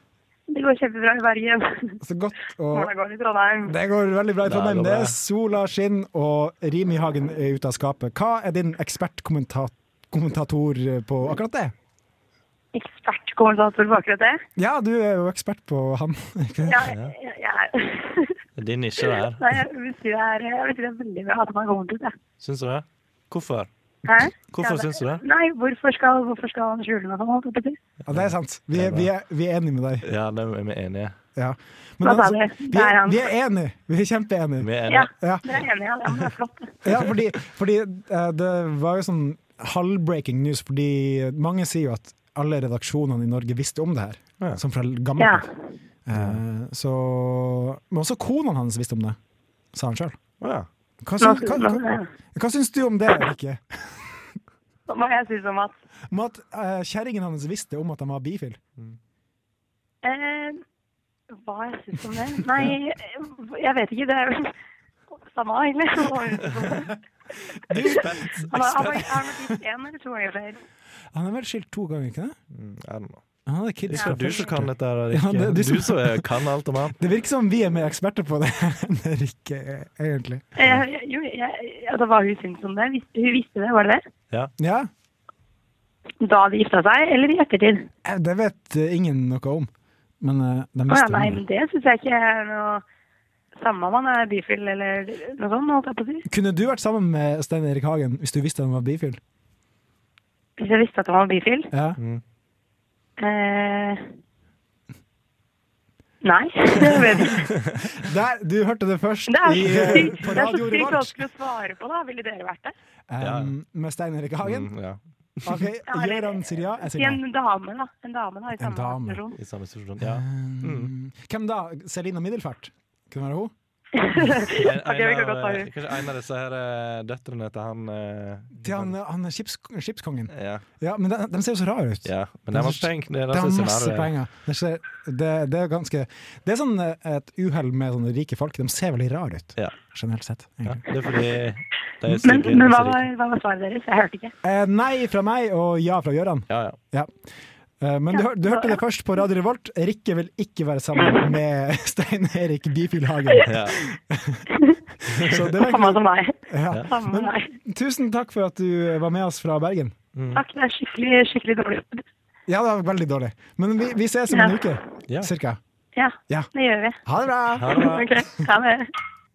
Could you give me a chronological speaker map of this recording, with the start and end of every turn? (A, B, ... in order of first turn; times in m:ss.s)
0:00.5-0:02.0 A
0:02.0-0:02.9 B
0:02.7-0:03.7 A
0:03.6-0:11.7 B
0:04.4-0:05.2 C
0:12.7-0:14.4 A
0:14.6-0:16.8 B
0:16.6-0:18.4 A
0:16.8-0:17.1 C
0:18.6-0:19.5 C
0:19.0-0:22.1 A
0:22.4-0:23.7 C
0:24.0-0:27.8 A
0:24.4-0:25.2 C
0:28.1-0:30.1 B
0:28.1-0:29.1 C
0:30.0-0:31.2 C
0:31.4-0:35.5 B
0:32.0-0:33.3 A
0:34.6-0:35.1 C
0:34.9-0:36.8 A
0:36.8-0:45.5 B
0:45.2-0:45.5 A
0:46.0-0:49.2 B
0:46.1-0:46.4 C
0:49.7-0:50.2 B
0:50.4-0:50.7 C
0:51.0-0:54.1 B
0:51.2-0:52.1 A
0:54.9-0:55.8 A
0:56.1-0:58.6 B
1:00.0-1:00.6 A
1:01.3-1:04.5 A
1:05.1-1:06.9 A
1:07.6-1:09.6 B
1:07.7-1:09.0 C
1:07.7-1:10.6 A
1:11.1-1:12.4 B
1:12.5-1:13.2 C
1:13.4-1:16.4 B
1:13.9-1:17.0 C
1:14.0-1:14.6 A
1:17.0-1:20.4 B
1:20.6-1:24.0 A
1:24.6-1:24.9 B
1:26.2-1:27.9 A
1:28.0-1:29.7 B
1:30.2-1:31.4 B
1:30.9-1:32.8 A
1:33.6-1:36.2 A
1:36.3-1:39.2 B
1:40.6-1:41.7 A
1:41.7-1:42.0 B
1:43.2-1:44.0 A
1:46.2-1:47.5 A
1:47.9-1:51.2 B
1:49.3-1:52.7 A
1:49.6-1:50.1 C
1:53.1-1:54.7 B
1:53.2-1:53.5 C
1:54.4-1:55.7 C
1:55.4-1:57.2 B
1:55.9-1:59.4 A
1:58.6-1:59.2 B
1:59.3-2:00.9 C
2:00.0-2:03.5 B
2:04.0-2:05.9 A
2:04.5-2:08.9 C
2:08.5-2:20.9 B
2:10.3-2:10.6 C
2:12.0-2:14.1 C
2:20.6-2:23.0 C
2:22.2-2:24.3 A
2:24.4-2:27.1 B
2:26.5-2:26.8 C
2:27.8-2:34.5 B
2:28.1-2:28.8 A
2:33.4-2:33.8 C
2:35.0-2:39.9 B
2:35.5-2:37.5 A
2:40.1-2:40.4 C
2:40.3-2:42.0 A
2:42.5-2:45.6 B
2:44.3-2:44.6 A
2:46.0-2:47.0 A
2:47.0-2:47.9 B
2:47.6-2:48.1 C
2:47.7-2:48.9 A